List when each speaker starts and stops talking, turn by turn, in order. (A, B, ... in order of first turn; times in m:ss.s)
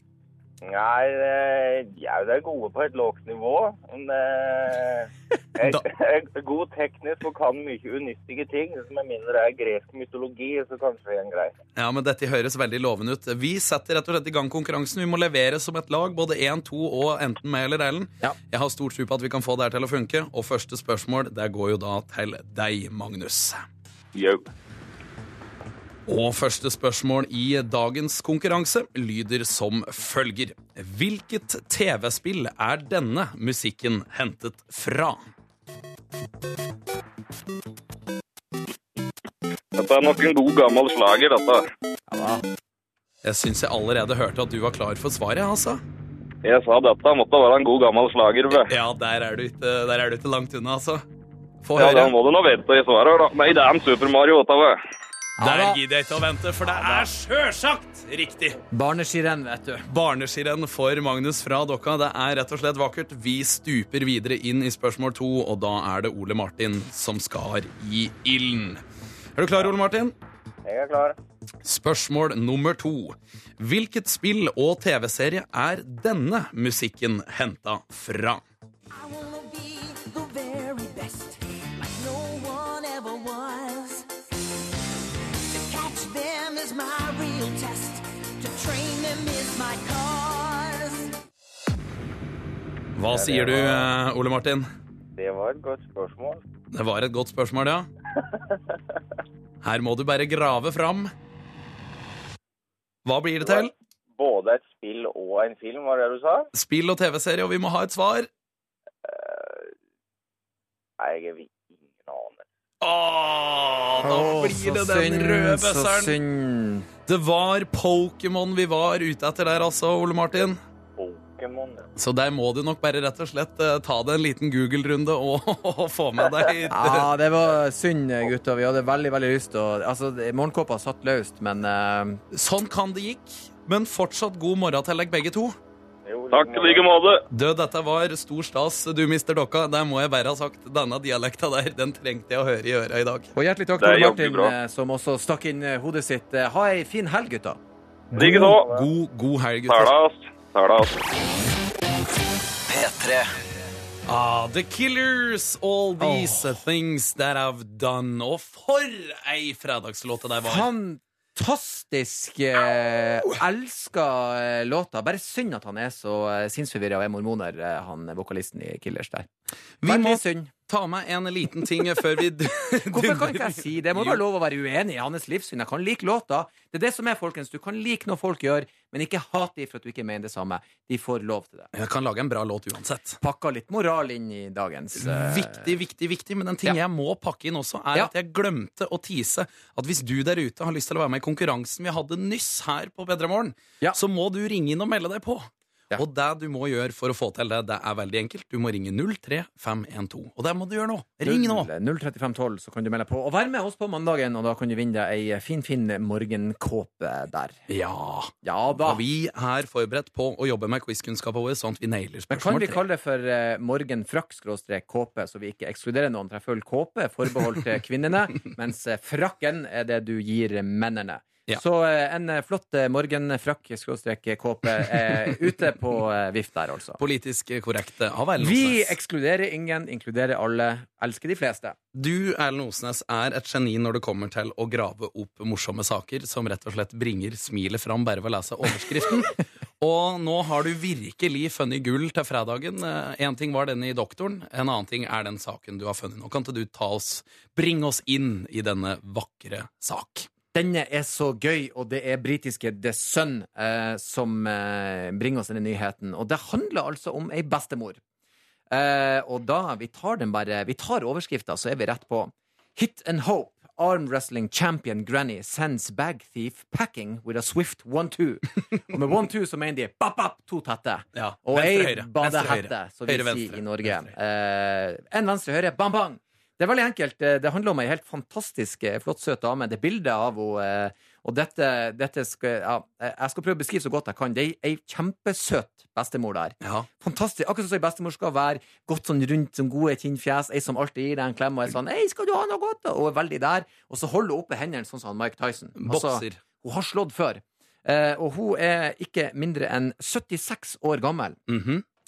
0:00.6-0:11.5 A
0:05.6-0:05.8 B
0:11.8-0:23.6 B
0:24.1-0:24.5 C
0:26.1-0:35.3 B
0:39.7-0:41.6 C
0:42.1-0:42.4 D
0:43.2-0:45.8 B
0:46.4-0:48.7 C
0:48.5-0:51.0 B
0:51.6-0:52.1 B
0:51.8-0:54.8 C
0:55.4-0:55.8 D
0:55.4-0:58.6 B
0:56.6-0:57.1 D
0:58.7-0:59.8 D
0:59.9-1:08.8 B
1:09.4-1:10.1 B
1:10.6-1:11.2 A
1:11.6-1:18.4 B
1:18.9-1:24.0 E
1:25.5-1:31.1 E
1:32.9-1:34.7 B
1:33.1-1:33.9 A
1:35.1-1:36.4 A
1:36.7-1:37.9 B
1:39.6-1:41.1 B
1:43.0-1:43.7 B
1:43.4-1:46.5 A
1:46.5-1:48.3 B
1:49.0-1:49.7 A
1:51.0-1:52.4 A
1:52.8-1:56.1 B
1:54.0-1:56.9 D
1:57.1-2:00.6 B
2:01.0-2:01.9 A
2:02.0-2:07.1 B
2:06.7-2:12.2 D
2:12.3-2:15.6 B
2:16.0-2:16.9 A
2:16.3-2:17.2 C
2:17.3-2:23.3 B
2:23.3-2:27.6 D
2:23.8-2:24.5 C
2:28.2-2:28.7 C
2:28.2-2:29.9 B
2:29.7-2:31.0 C
2:34.1-2:40.7 B
2:36.0-2:36.5 D
2:40.4-2:49.3 D
2:49.8-2:54.2 B
2:49.8-2:50.5 D
2:52.9-3:01.7 D
3:01.7-3:03.2 B
3:03.2-3:05.7 D
3:05.0-3:21.7 B
3:21.2-3:27.6 D
3:27.7-3:32.8 B
3:28.4-3:29.0 D
3:32.3-3:47.0 D
3:47.0-3:48.9 B
3:48.4-3:51.8 D
3:51.9-4:10.3 B
4:10.5-4:18.0 D
4:18.7-5:01.4 D
4:31.1-4:34.1 B
4:46.6-4:46.9 B
4:55.8-4:56.4 B
5:01.5-5:01.8 B